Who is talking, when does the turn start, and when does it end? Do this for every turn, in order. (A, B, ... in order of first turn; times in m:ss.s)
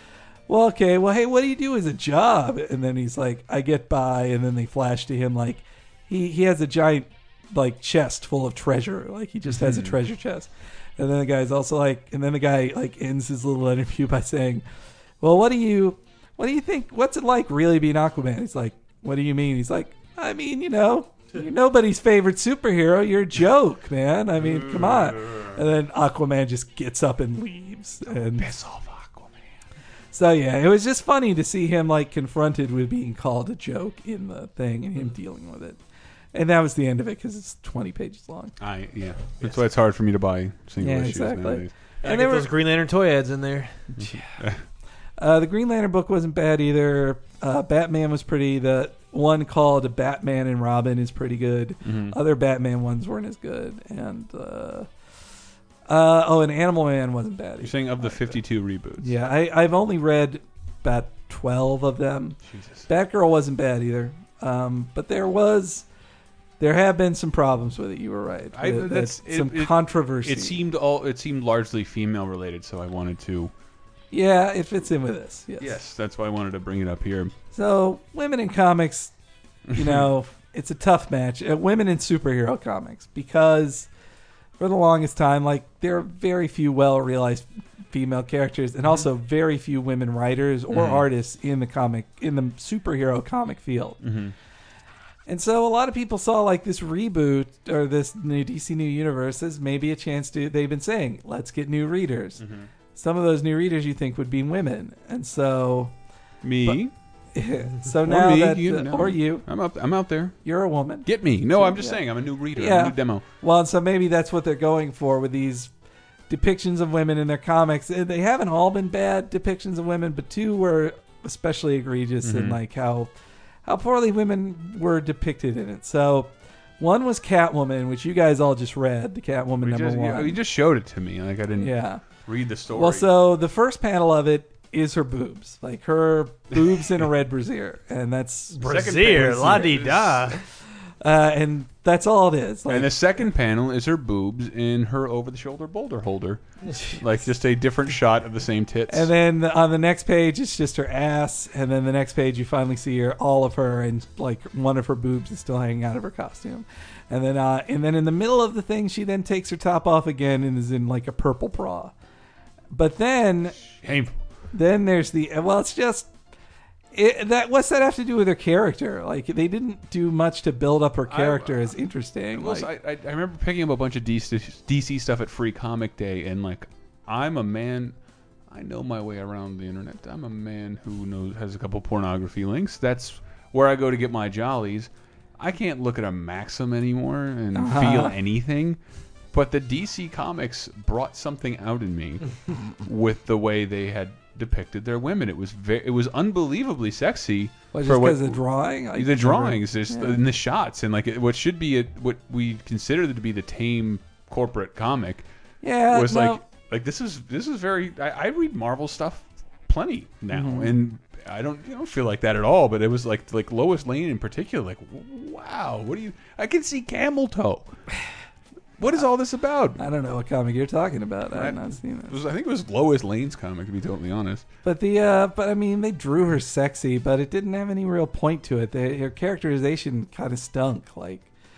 0:00.5-0:14.6 A
0:09.5-0:10.0 B
0:15.2-0:28.5 A
0:28.2-0:29.3 B
0:30.1-0:35.8 A
0:36.3-0:38.5 A
0:38.6-0:41.7 B
0:40.8-0:42.5 A
0:42.0-0:43.7 C
0:44.0-0:44.6 B
0:45.2-0:54.9 A
0:51.8-0:52.2 B
0:55.9-0:58.4 A
0:57.6-0:59.1 B
0:59.0-1:05.8 A
1:02.5-1:02.8 B
1:06.6-1:10.6 A
1:08.5-1:13.5 B
1:14.1-1:15.8 A
1:15.6-1:17.3 B
1:17.5-1:19.1 A
1:19.7-1:23.9 A
1:24.6-1:34.0 A
1:30.7-1:31.0 B
1:34.0-1:34.3 B
1:35.2-1:42.4 A
1:42.4-1:42.7 B
1:42.9-1:45.9 A
1:46.4-1:46.9 B
1:47.3-1:49.5 A
1:48.0-1:50.4 B
1:50.4-1:52.0 A
1:51.0-1:53.2 B
1:52.5-1:55.7 A
1:56.3-2:03.1 A
2:02.2-2:02.6 B
2:03.6-2:10.4 A
2:09.6-2:13.1 B
2:11.6-2:12.0 A
2:12.7-2:19.7 A
2:18.6-2:20.4 C
2:18.6-2:20.4 B
2:21.0-2:23.0 A
2:22.7-2:29.1 B
2:28.9-2:41.9 A
2:42.7-2:43.6 A
2:43.8-2:44.1 B
2:44.5-2:46.1 A
2:46.9-2:52.7 A
2:51.1-2:51.7 B
2:52.3-2:57.9 B
2:58.5-3:08.8 B
3:07.5-3:08.2 A
3:09.3-3:25.2 B
3:17.7-3:20.2 A
3:25.6-3:26.4 A
3:25.9-3:37.7 B
3:30.3-3:30.8 A
3:38.8-3:39.8 B
3:39.8-3:42.2 A
3:41.3-3:44.4 B
3:44.6-3:51.3 A